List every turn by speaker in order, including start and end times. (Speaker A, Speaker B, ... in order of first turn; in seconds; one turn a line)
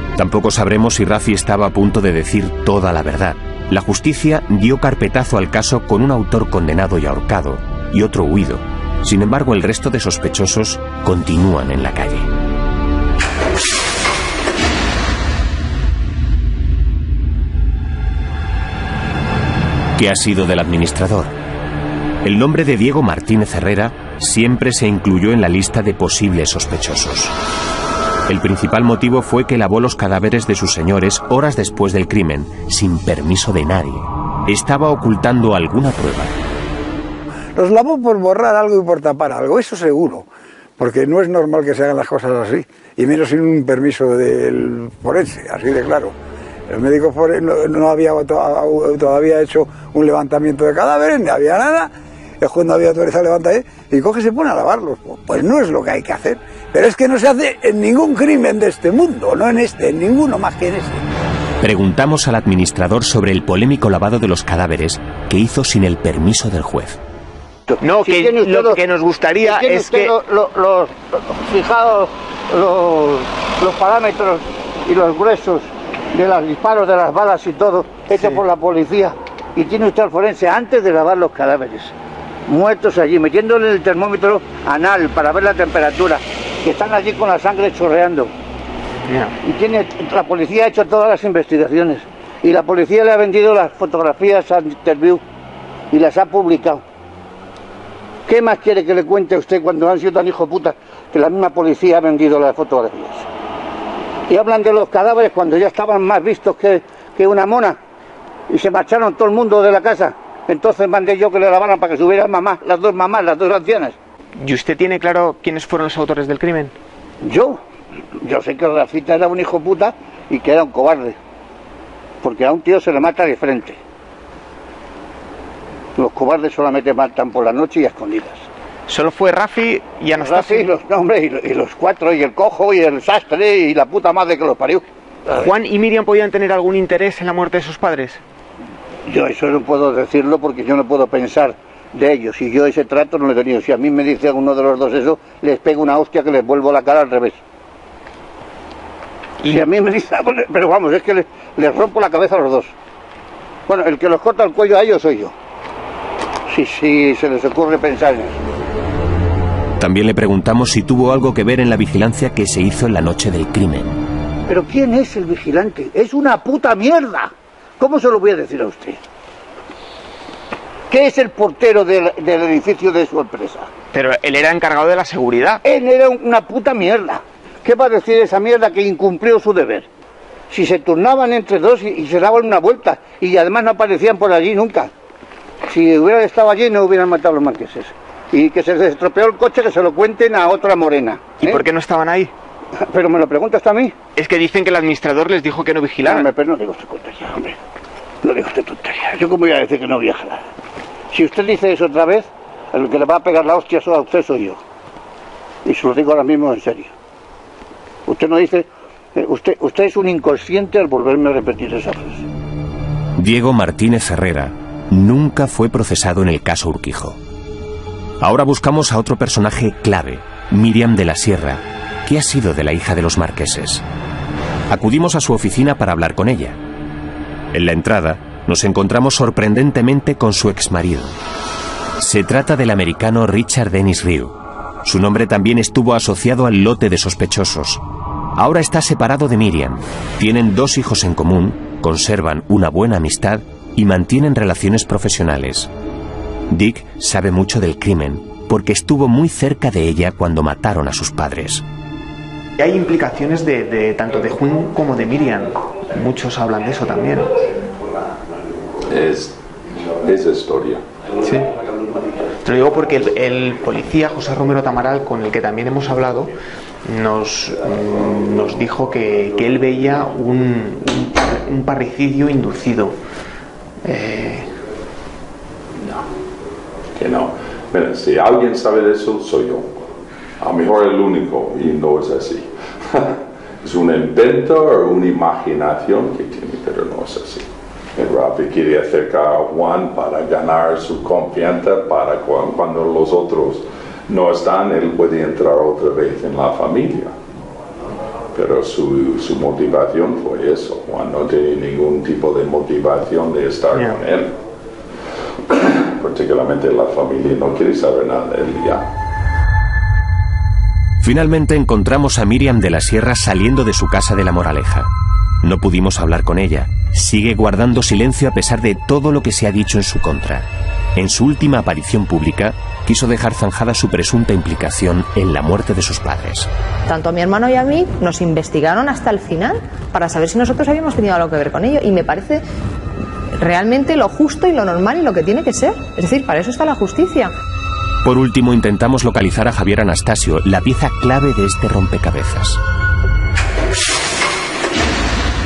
Speaker A: 0.2-12.3
Speaker A: 20.0-21.4
Speaker A: 22.2-27.4
Speaker A: 28.3-36.4
Speaker B: 37.6-40.3
Speaker B: 40.8-46.1
Speaker B: 46.7-61.0
Speaker A: 61.6-67.0
Speaker C: 67.7-68.8
Speaker D: 67.8-70.1
Speaker C: 69.4-81.9
Speaker D: 78.1-78.4
Speaker C: 82.5-88.3
Speaker D: 89.1-89.3
Speaker C: 89.4-95.2
Speaker C: 95.9-96.8
Speaker C: 98.3-103.3
Speaker C: 104.3-107.8
Speaker C: 108.5-114.0
Speaker D: 114.4-116.7
Speaker C: 117.2-117.6
Speaker C: 118.2-121.2
Speaker C: 122.2-123.8
Speaker C: 126.0-128.4
Speaker D: 128.9-130.7
Speaker C: 130.2-135.4
Speaker D: 135.3-138.2
Speaker C: 139.1-147.4
Speaker C: 149.4-152.7
Speaker C: 153.7-155.3
Speaker C: 156.5-158.4
Speaker A: 159.8-164.0
Speaker C: 164.5-169.0
Speaker C: 170.9-173.7
Speaker D: 173.9-175.6
Speaker C: 175.6-179.9
Speaker C: 180.5-184.9
Speaker C: 185.7-191.6
Speaker D: 191.4-192.3
Speaker C: 192.9-193.9
Speaker D: 194.2-196.3
Speaker C: 196.0-197.6
Speaker C: 198.2-200.4
Speaker C: 201.1-204.6
Speaker C: 205.7-206.9
Speaker C: 208.1-212.2
Speaker A: 213.2-217.2
Speaker A: 218.2-223.8
Speaker A: 224.7-226.6
Speaker A: 227.5-231.2
Speaker A: 232.0-237.8
Speaker A: 238.4-245.7
Speaker A: 246.5-251.6
Speaker D: 252.6-257.3
Speaker E: 258.9-259.4
Speaker E: 260.0-260.8
Speaker D: 261.2-261.5
Speaker D: 262.4-266.3
Speaker D: 266.9-273.0
Speaker D: 273.9-274.5
Speaker E: 277.0-279.7
Speaker E: 280.4-297.1
Speaker E: 298.3-304.3
Speaker D: 303.7-304.0
Speaker E: 305.5-308.9
Speaker A: 311.0-314.9
Speaker A: 315.4-326.5
Speaker F: 326.9-332.4
Speaker F: 333.4-337.3
Speaker A: 338.0-342.6